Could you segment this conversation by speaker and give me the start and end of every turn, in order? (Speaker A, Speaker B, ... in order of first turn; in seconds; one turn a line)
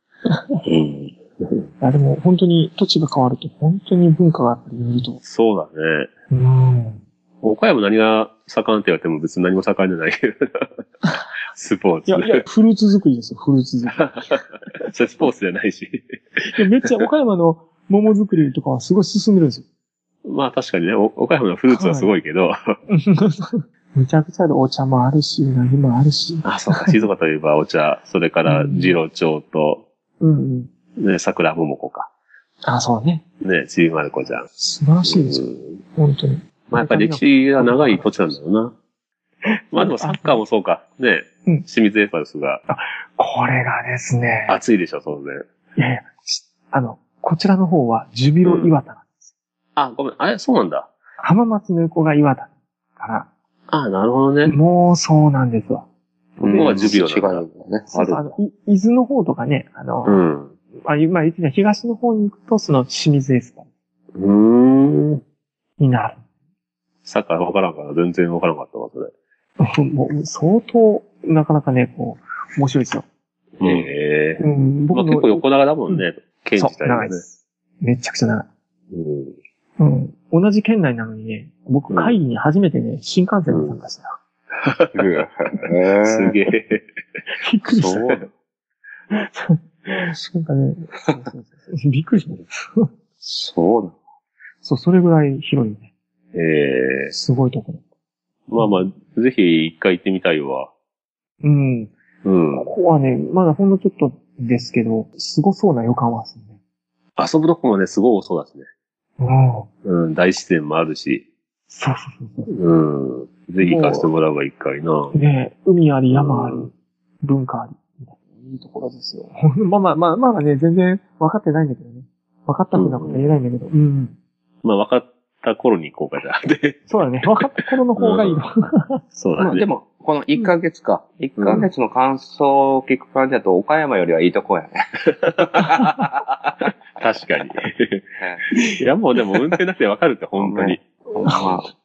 Speaker A: 0.6-1.1
Speaker B: 1.8-5.2
Speaker C: 5.2-6.1
Speaker B: 6.3-7.0
Speaker C: 7.4-10.4
Speaker C: 11.5-12.4
Speaker B: 12.1-14.4
Speaker C: 13.9-14.3
Speaker C: 14.9-16.0
Speaker B: 16.5-19.6
Speaker C: 16.6-16.9
Speaker C: 20.2-22.6
Speaker B: 21.7-22.1
Speaker B: 22.9-27.0
Speaker C: 26.4-29.8
Speaker B: 28.4-29.0
Speaker B: 30.2-30.7
Speaker C: 31.0-32.1
Speaker B: 32.6-33.2
Speaker C: 33.4-34.5
Speaker B: 34.6-38.2
Speaker C: 35.0-35.8
Speaker C: 36.7-38.7
Speaker C: 39.7-42.6
Speaker B: 39.7-40.4
Speaker B: 42.7-44.6
Speaker C: 44.5-45.4
Speaker B: 45.8-49.3
Speaker C: 48.4-48.8
Speaker C: 49.8-50.9
Speaker B: 51.2-53.3
Speaker C: 53.7-54.6
Speaker B: 54.5-55.9
Speaker A: 56.4-58.3
Speaker B: 56.4-57.0
Speaker C: 56.5-57.5
Speaker B: 57.9-60.2
Speaker C: 60.0-60.5
Speaker B: 60.8-63.7
Speaker C: 64.2-65.2
Speaker B: 65.8-66.2
Speaker C: 67.0-69.1
Speaker B: 69.6-73.1
Speaker C: 73.6-77.2
Speaker B: 74.4-76.1
Speaker B: 76.6-78.5
Speaker C: 78.9-79.4
Speaker B: 79.8-84.2
Speaker C: 81.9-82.2
Speaker C: 83.5-83.8
Speaker C: 84.6-85.1
Speaker A: 84.9-86.4
Speaker C: 86.0-86.8
Speaker B: 87.4-88.2
Speaker A: 87.7-88.3
Speaker B: 89.1-92.8
Speaker A: 93.2-94.0
Speaker B: 94.6-95.9
Speaker C: 96.3-97.1
Speaker B: 97.1-97.8
Speaker C: 98.5-100.7
Speaker B: 101.4-101.9
Speaker C: 102.2-102.7
Speaker B: 102.5-106.6
Speaker C: 107.2-108.7
Speaker B: 109.2-109.7
Speaker C: 109.8-111.2
Speaker B: 111.7-112.5
Speaker C: 112.5-115.2
Speaker B: 113.6-114.1
Speaker B: 115.1-116.7
Speaker C: 116.1-116.7
Speaker B: 117.2-124.2
Speaker C: 122.7-123.3
Speaker C: 124.6-128.4
Speaker B: 126.9-129.0
Speaker C: 129.1-129.7
Speaker A: 129.4-134.8
Speaker C: 131.4-131.7
Speaker C: 135.2-135.9
Speaker C: 136.6-138.1
Speaker A: 138.2-138.5
Speaker C: 138.8-140.8
Speaker A: 140.4-141.7